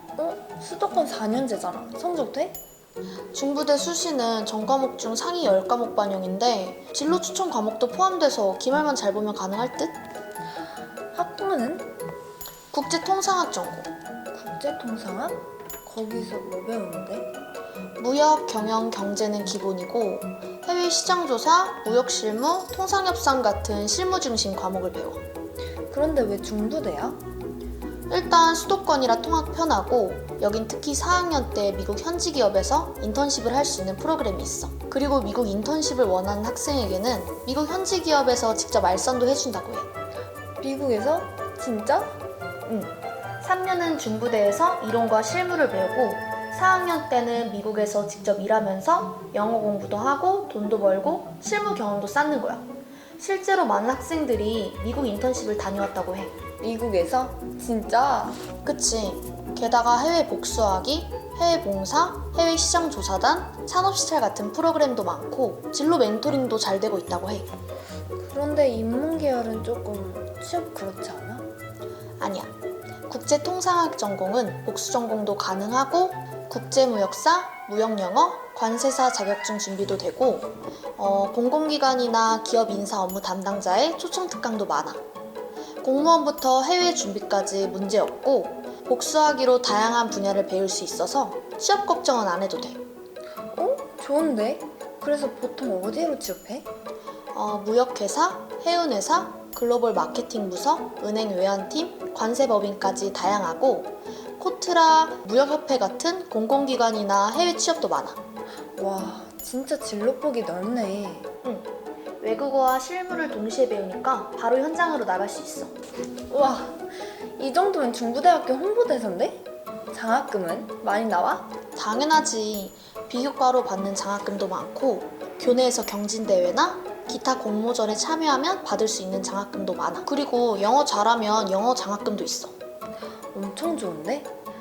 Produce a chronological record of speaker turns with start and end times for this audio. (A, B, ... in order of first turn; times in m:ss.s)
0:00.2-0:02.6 A
0:03.3-0:10.0 B
0:11.1-0:11.9 A
0:12.7-0:13.9 B
0:14.3-0:17.3 A
0:18.0-0:25.2 B
0:25.9-0:27.2 A
0:28.1-0:39.9 B
0:40.6-0:42.2 A
0:42.7-0:56.4 B
0:56.6-0:58.4 A
0:58.6-1:07.5 B
1:08.2-1:11.5 A
1:12.2-1:12.5 B
1:13.1-1:25.0 B
1:25.8-1:32.8 B
1:33.5-1:36.7 A
1:37.3-1:48.2 B
1:48.8-1:51.3 A
1:51.4-1:51.7 B
1:52.2-1:55.7 B
1:56.3-2:01.5 A
2:01.8-2:12.6 B
2:13.3-2:14.3 A